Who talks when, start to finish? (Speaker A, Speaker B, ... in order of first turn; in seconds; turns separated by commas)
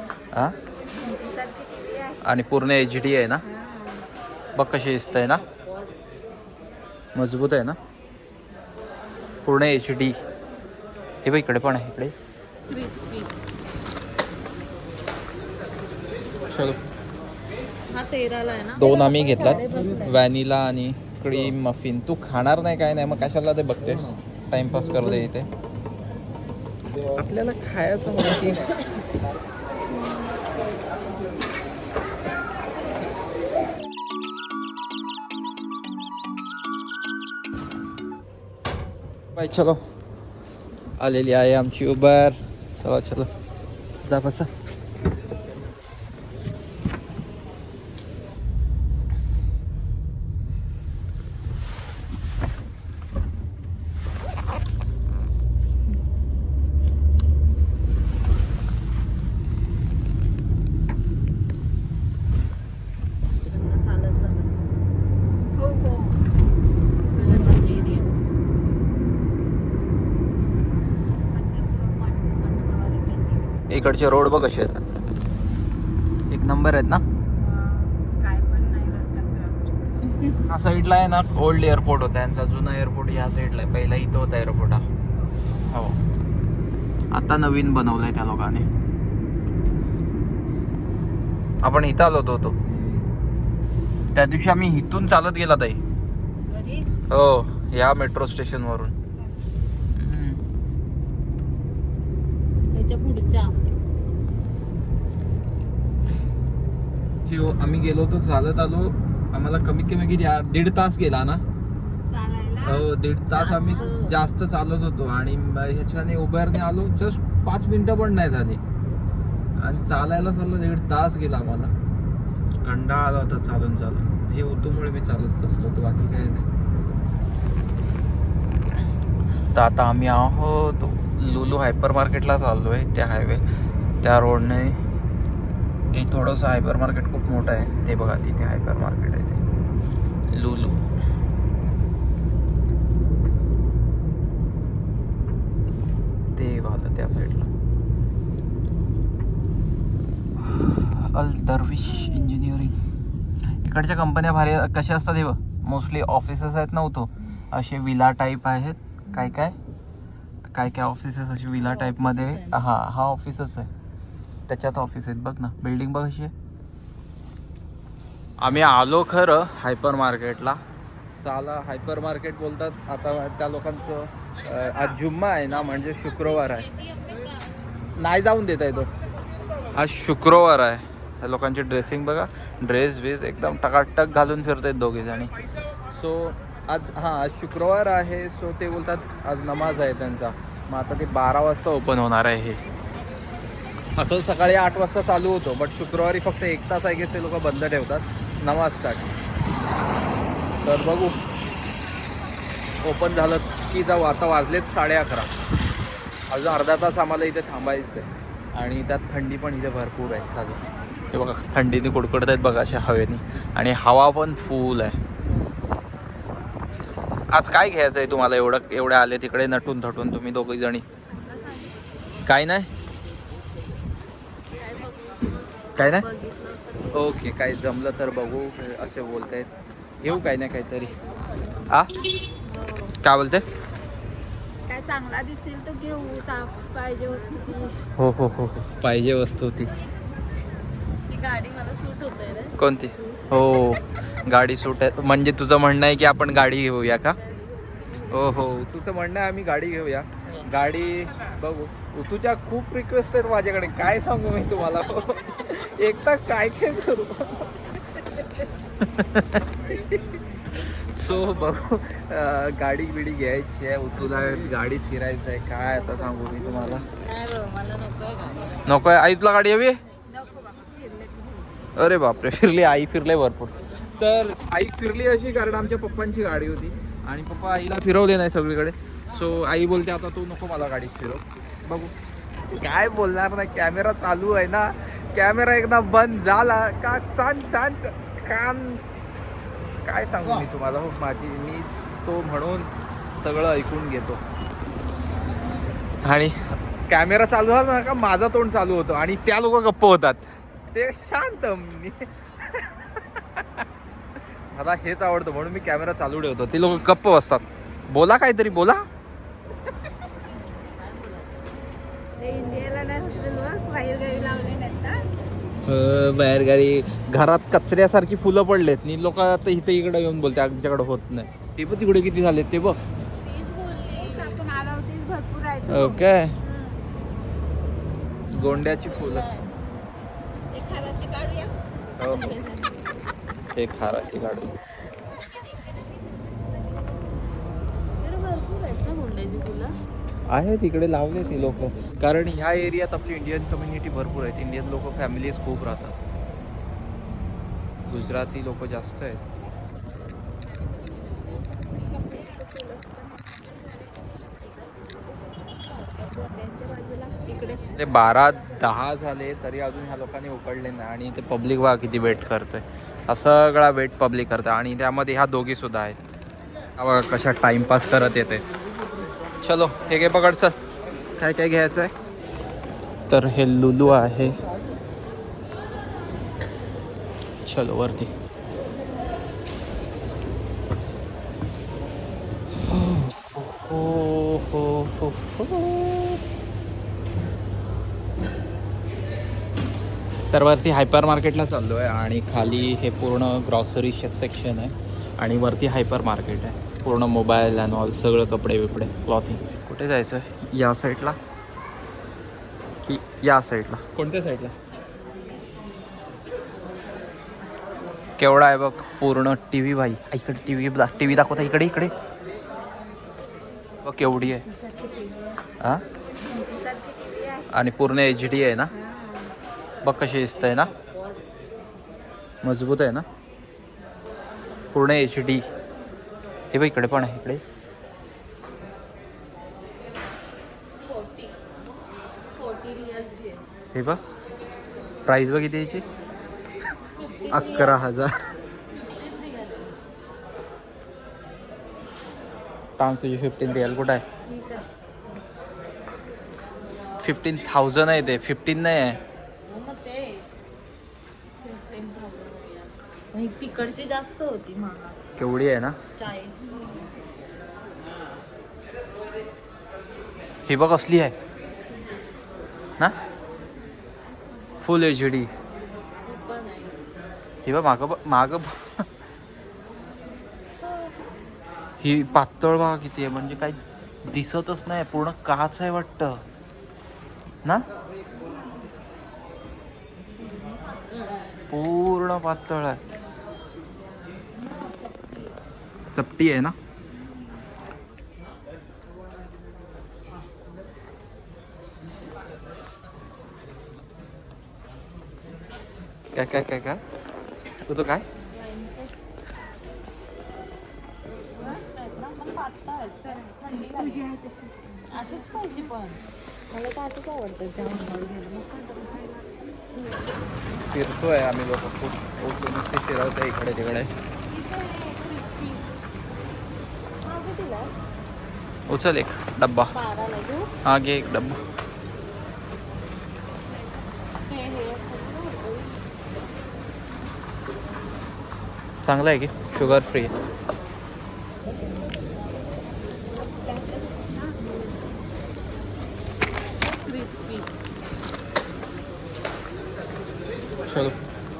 Speaker A: 1.0-2.2, Speaker B: 2.2-3.4, Speaker A: 3.4-4.1, Speaker B: 4.5-5.4, Speaker B: 7.1-7.8, Speaker B: 9.4-10.1, Speaker B: 11.2-12.1, Speaker C: 12.7-13.3, Speaker B: 16.5-16.8, Speaker C: 17.9-20.1, Speaker B: 18.7-25.5, Speaker B: 27.2-28.8, Speaker B: 39.3-39.8, Speaker B: 41.0-43.3, Speaker B: 44.0-44.5, Speaker C: 63.4-64.5, Speaker A: 65.5-66.2, Speaker C: 67.1-68.2, Speaker A: 67.3-67.5, Speaker A: 71.3-73.7, Speaker B: 73.7-74.8, Speaker B: 76.3-77.0, Speaker A: 77.4-79.9, Speaker B: 80.5-84.8, Speaker B: 85.7-86.0, Speaker B: 87.1-88.7, Speaker B: 91.6-92.5, Speaker C: 92.6-93.2, Speaker B: 94.1-95.8, Speaker A: 96.5-96.9, Speaker B: 97.1-98.9, Speaker B: 100.0-100.4, Speaker C: 102.7-103.7, Speaker B: 107.2-111.4, Speaker A: 112.1-112.9, Speaker B: 112.6-118.6, Speaker C: 113.3-114.2, Speaker B: 119.6-121.7, Speaker B: 122.6-126.5, Speaker B: 129.5-133.4, Speaker B: 134.0-134.8, Speaker B: 135.9-139.4, Speaker B: 140.3-140.8, Speaker B: 146.3-147.4, Speaker B: 150.4-152.8, Speaker B: 153.6-159.6, Speaker B: 160.5-163.7, Speaker C: 161.6-162.7, Speaker B: 164.5-166.3, Speaker B: 168.4-176.7, Speaker C: 175.7-177.6, Speaker B: 178.0-178.9, Speaker B: 179.7-185.3, Speaker B: 185.8-192.6, Speaker B: 194.0-199.1, Speaker B: 200.6-201.2, Speaker B: 202.8-205.3, Speaker B: 206.3-215.0, Speaker B: 217.3-220.8, Speaker A: 221.1-221.8, Speaker B: 222.2-222.7, Speaker C: 224.6-227.2, Speaker B: 225.8-226.1, Speaker B: 226.9-229.5, Speaker B: 230.0-231.0, Speaker B: 231.7-232.0, Speaker C: 232.4-232.9, Speaker B: 233.0-233.4, Speaker A: 234.7-237.8, Speaker B: 237.9-239.7, Speaker C: 241.1-242.6, Speaker B: 242.6-247.2, Speaker B: 248.1-258.3, Speaker B: 258.8-266.9, Speaker C: 267.0-268.6, Speaker B: 268.6-269.8, Speaker A: 270.1-271.6, Speaker B: 271.8-288.8, Speaker B: 289.8-294.2, Speaker B: 296.0-303.4, Speaker B: 304.5-308.8, Speaker C: 310.4-311.4, Speaker A: 312.2-315.0, Speaker B: 315.6-322.8, Speaker C: 323.2-324.4, Speaker A: 323.9-326.8, Speaker B: 325.7-326.4, Speaker B: 328.3-329.3, Speaker C: 328.4-329.5, Speaker A: 330.5-332.8, Speaker B: 332.0-332.3, Speaker B: 333.5-334.5, Speaker C: 338.0-339.8, Speaker B: 340.3-345.9, Speaker B: 347.9-349.2, Speaker A: 350.6-357.6, Speaker B: 357.8-366.0, Speaker B: 366.8-368.4, Speaker B: 369.4-370.6, Speaker B: 371.2-371.9, Speaker B: 373.1-374.4, Speaker B: 377.4-378.1, Speaker B: 382.6-386.2, Speaker B: 390.3-401.2, Speaker B: 402.8-404.5, Speaker B: 408.2-411.9, Speaker B: 413.8-414.4, Speaker A: 416.2-417.5, Speaker B: 417.5-418.7, Speaker A: 418.7-419.4, Speaker B: 419.8-420.7, Speaker C: 420.9-421.2, Speaker B: 422.4-423.0, Speaker B: 424.7-425.4, Speaker B: 426.5-427.4, Speaker C: 430.8-431.4, Speaker C: 432.3-433.4, Speaker B: 433.7-434.0, Speaker B: 435.1-435.8, Speaker C: 436.9-437.9, Speaker B: 437.3-438.2, Speaker C: 438.7-439.8, Speaker B: 442.8-444.0, Speaker C: 444.2-444.7, Speaker B: 447.0-449.0, Speaker C: 449.4-450.3, Speaker C: 451.4-455.0, Speaker B: 455.2-455.8, Speaker C: 456.0-456.8, Speaker B: 460.5-461.1, Speaker B: 464.6-465.3, Speaker C: 466.0-466.8, Speaker B: 467.4-468.8, Speaker C: 470.6-470.9, Speaker B: 471.8-476.2, Speaker B: 481.5-482.8, Speaker C: 484.4-485.3, Speaker B: 485.9-486.5, Speaker B: 496.1-496.8, Speaker B: 497.6-498.0, Speaker C: 498.3-498.9, Speaker C: 501.3-504.1, Speaker A: 503.5-505.1, Speaker C: 504.9-509.1, Speaker C: 509.7-510.0, Speaker B: 510.6-513.9, Speaker C: 514.3-515.7, Speaker C: 517.0-517.7, Speaker B: 518.7-519.7, Speaker C: 519.7-520.5, Speaker B: 520.6-521.4, Speaker C: 524.2-525.8, Speaker B: 528.8-530.1, Speaker A: 533.2-534.4, Speaker C: 536.6-537.5, Speaker B: 540.6-540.9